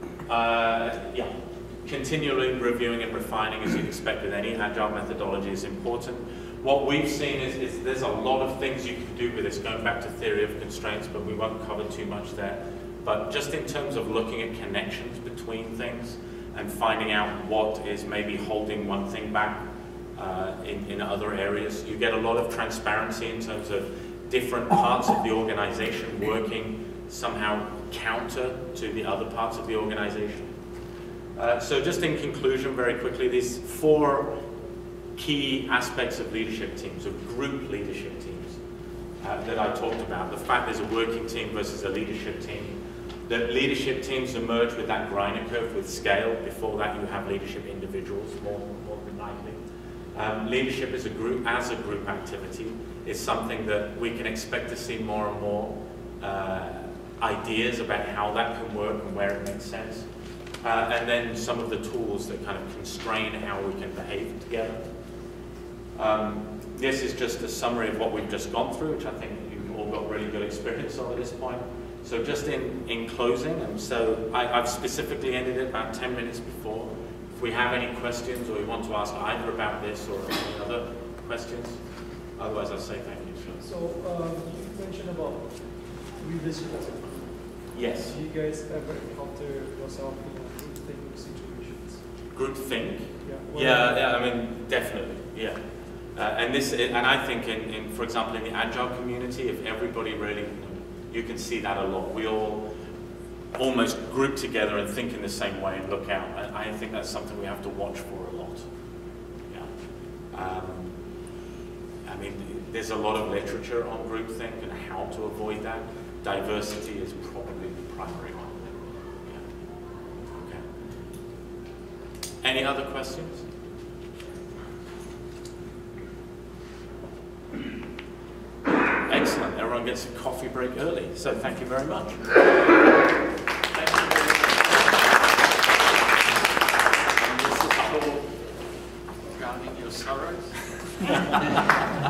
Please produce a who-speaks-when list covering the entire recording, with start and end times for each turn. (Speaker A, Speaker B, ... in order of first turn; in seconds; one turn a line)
Speaker A: 0.3-1.3
Speaker A: 1.8-30.5
Speaker A: 31.4-34.4
Speaker A: 35.1-38.6
Speaker A: 39.2-42.8
Speaker A: 43.3-49.6
Speaker A: 50.1-60.0
Speaker A: 60.6-64.8
Speaker A: 66.0-81.8
Speaker A: 82.4-83.7
Speaker B: 83.6-92.0
Speaker A: 87.7-88.2
Speaker A: 92.3-95.6
Speaker B: 93.2-94.0
Speaker A: 96.1-102.7
Speaker A: 103.5-108.7
Speaker A: 110.3-110.9
Speaker A: 112.0-119.4
Speaker A: 120.3-120.6
Speaker A: 122.4-123.5
Speaker A: 129.1-132.2
Speaker C: 133.7-134.7
Speaker C: 137.2-138.4
Speaker C: 139.3-141.3